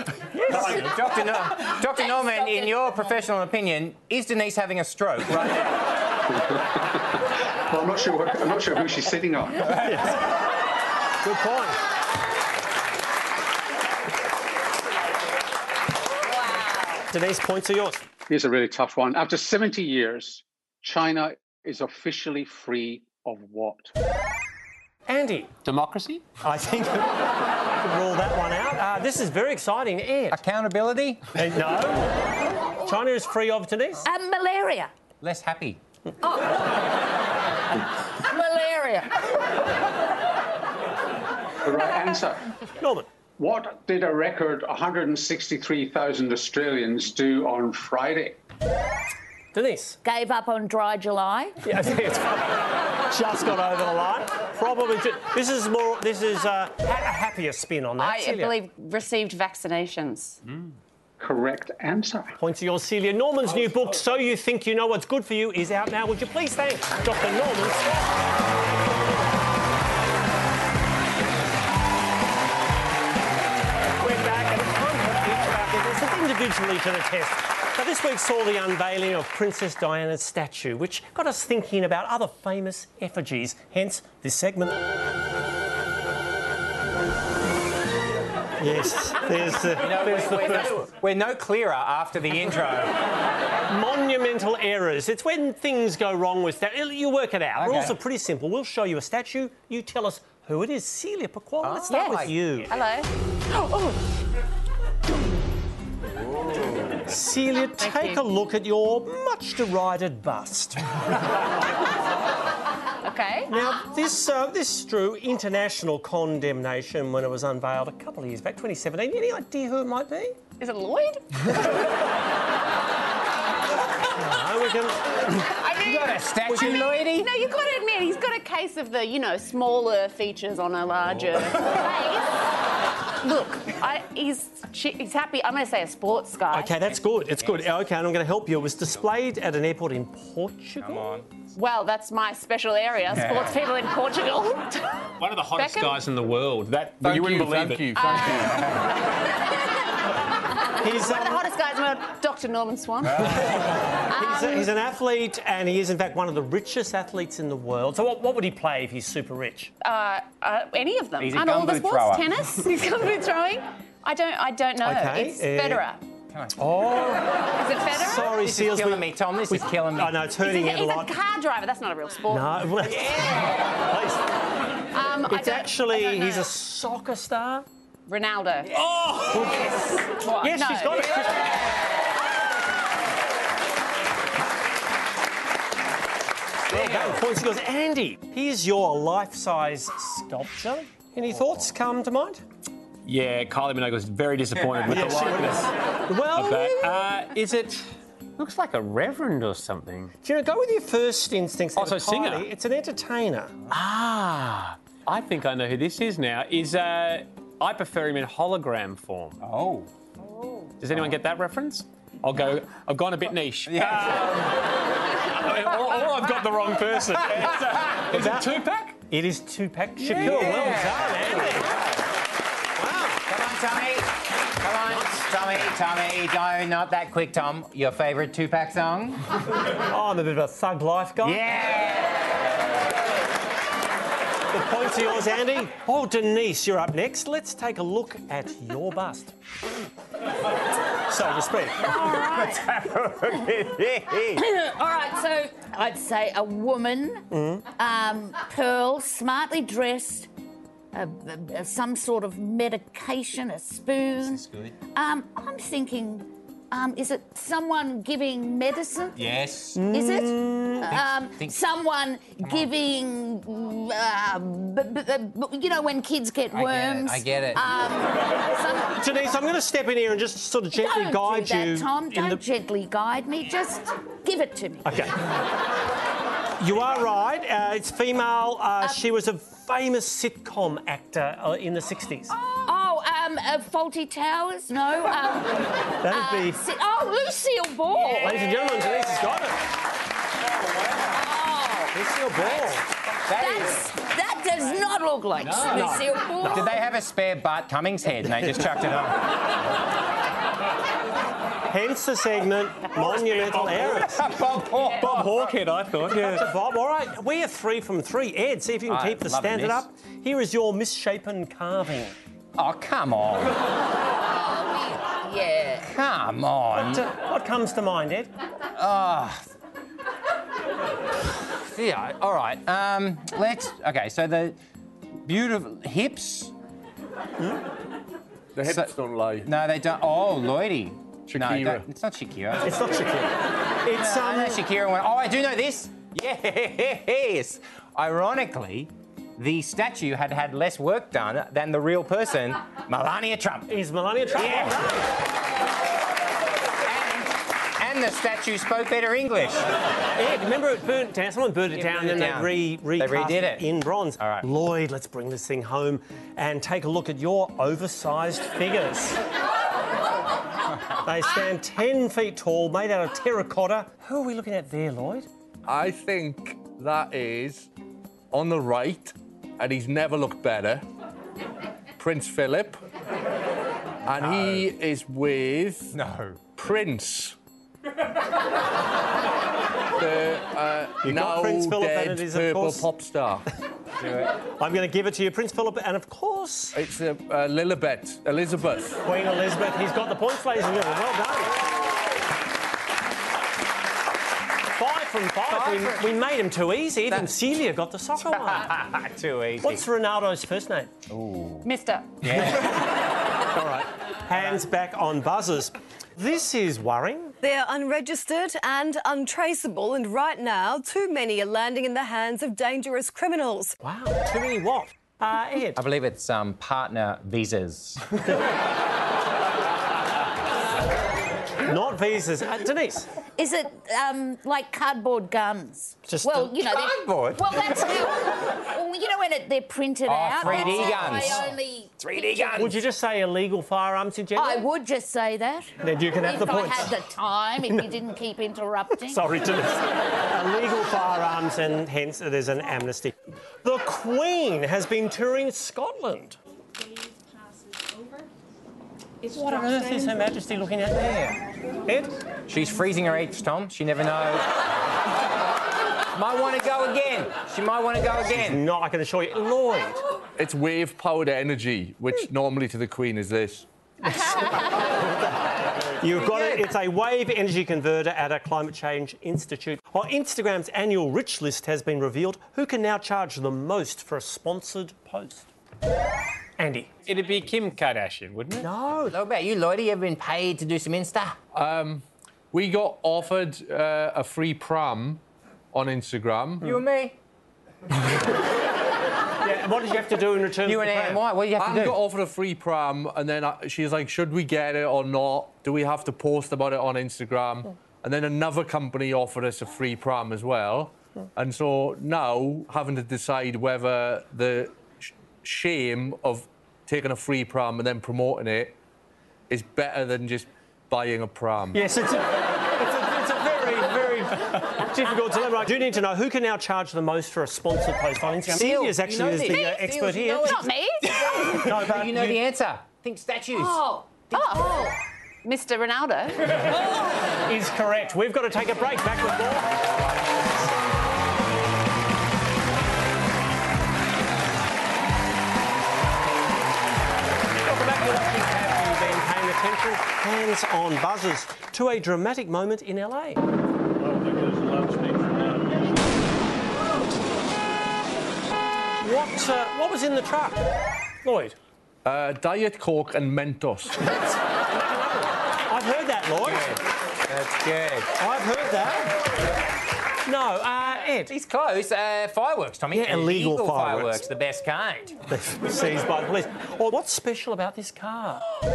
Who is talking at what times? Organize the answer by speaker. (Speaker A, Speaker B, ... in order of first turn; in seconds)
Speaker A: 0.4-5.7, 30.3-31.2, 35.2-35.8, 89.8-93.0, 97.5-98.0, 101.6-102.4, 106.5-107.0, 125.7-127.3, 140.8-141.2, 143.1-143.6, 153.0-153.6, 161.2-162.4, 166.3-167.2, 168.1-170.2, 172.8-173.6, 209.4-209.9, 213.7-214.2, 220.0-222.0, 223.2-229.2, 231.2-232.3, 241.8-244.4, 254.2-254.8, 259.1-259.9, 260.8-261.6, 262.4-262.7, 266.5-267.8, 293.3-293.8, 296.4-299.2, 303.8-305.4, 308.9-309.9, 312.6-313.6, 315.8-317.1, 318.7-319.4, 321.2-324.6, 325.2-326.5, 328.6-328.9, 329.4-332.8, 333.9-343.7, 344.3-345.0, 346.8-349.7, 351.7-353.6, 354.2-354.5, 375.9-376.4, 384.0-384.3, 395.5-396.0, 398.3-399.9, 401.1-401.7, 402.2-402.7, 415.8-418.0, 426.5-427.9, 430.0-432.8, 452.5-454.5, 456.1-458.6, 466.1-466.7, 479.1-481.4, 486.6-487.1, 490.6-492.0, 518.4-524.9, 556.4-558.1, 561.3-565.2
Speaker B: 0.5-0.8, 9.7-10.2, 11.2-11.8, 17.1-18.0, 25.1-25.5, 26.4-27.2, 27.8-30.4, 31.3-34.0, 42.8-43.1, 49.5-50.0, 51.6-58.5, 62.4-67.8, 74.0-84.8, 88.6-90.8, 93.7-102.7, 107.1-110.8, 113.5-120.4, 124.1-125.5, 136.5-141.2, 150.8-151.5, 154.1-159.7, 164.8-165.8, 166.6-167.2, 167.9-171.1, 172.3-174.2, 175.3-177.7, 178.8-181.5, 186.7-192.4, 194.6-197.7, 200.2-203.6, 218.1-221.8, 222.8-223.2, 229.9-231.5, 234.5-239.3, 241.1-241.8, 247.3-247.6, 259.8-260.9, 268.9-272.4, 274.9-275.2, 276.6-282.3, 286.0-286.6, 288.0-289.6, 291.9-292.8, 295.7-296.7, 298.3-298.7, 301.7-304.2, 305.1-312.1, 316.8-318.3, 327.4-327.6, 332.6-334.6, 343.7-345.1, 350.1-359.2, 361.0-365.3, 381.0-382.9, 384.6-386.7, 389.0-391.6, 394.7-398.7, 399.6-400.9, 403.5-407.3, 413.8-415.8, 421.6-423.1, 426.1-426.5, 432.6-434.6, 435.8-437.0, 439.1-446.4, 449.2-452.1, 458.2-460.0, 466.0-475.4, 476.6-476.9, 478.6-479.2, 489.4-491.2, 511.7-520.7, 521.4-522.4, 527.5-530.4, 537.6-543.4, 549.0-550.6, 551.2-551.5, 554.1-556.8, 558.2-559.2, 560.2-561.3, 562.9-564.2, 565.3-568.4
Speaker C: 1.8-2.8, 58.0-60.4, 101.9-103.1, 107.8-108.2, 113.0-113.5, 120.6-121.4, 125.6-132.3, 133.2-136.7, 141.5-144.9, 145.5-146.0, 147.9-148.6, 150.8-153.4, 154.1-154.7, 159.8-166.0, 167.6-168.3, 170.4-172.7, 174.9-176.5, 178.1-178.7, 180.1-181.3, 401.6-402.1, 520.4-521.3, 523.5-524.9, 525.4-526.6
Speaker D: 7.7-9.7, 18.3-23.9, 41.6-42.4, 43.4-48.4, 61.2-62.4
Speaker E: 25.6-26.2, 145.2-148.4, 193.0-195.7, 196.3-197.7, 198.4-200.1, 201.8-202.5, 203.7-209.4, 210.8-214.5, 215.4-219.0, 220.1-220.6, 295.4-295.9, 305.0-306.5, 477.0-478.7
Speaker F: 34.0-34.9, 38.2-39.1, 50.0-51.6, 241.8-242.7, 244.3-250.3, 250.9-259.2, 259.9-268.9, 270.7-275.0, 282.3-288.4, 291.1-292.6, 293.3-296.7, 314.4-315.9, 423.4-432.6, 434.3-439.2
Speaker G: 147.0-148.6, 328.6-329.5, 331.3-331.8, 365.7-367.7, 368.3-370.8, 372.0-372.8, 374.1-375.9, 376.5-377.4, 380.0-383.4, 386.7-389.0, 460.4-463.6, 481.5-486.8, 491.6-508.7, 509.5-511.8, 552.0-554.1
Speaker H: 407.4-413.7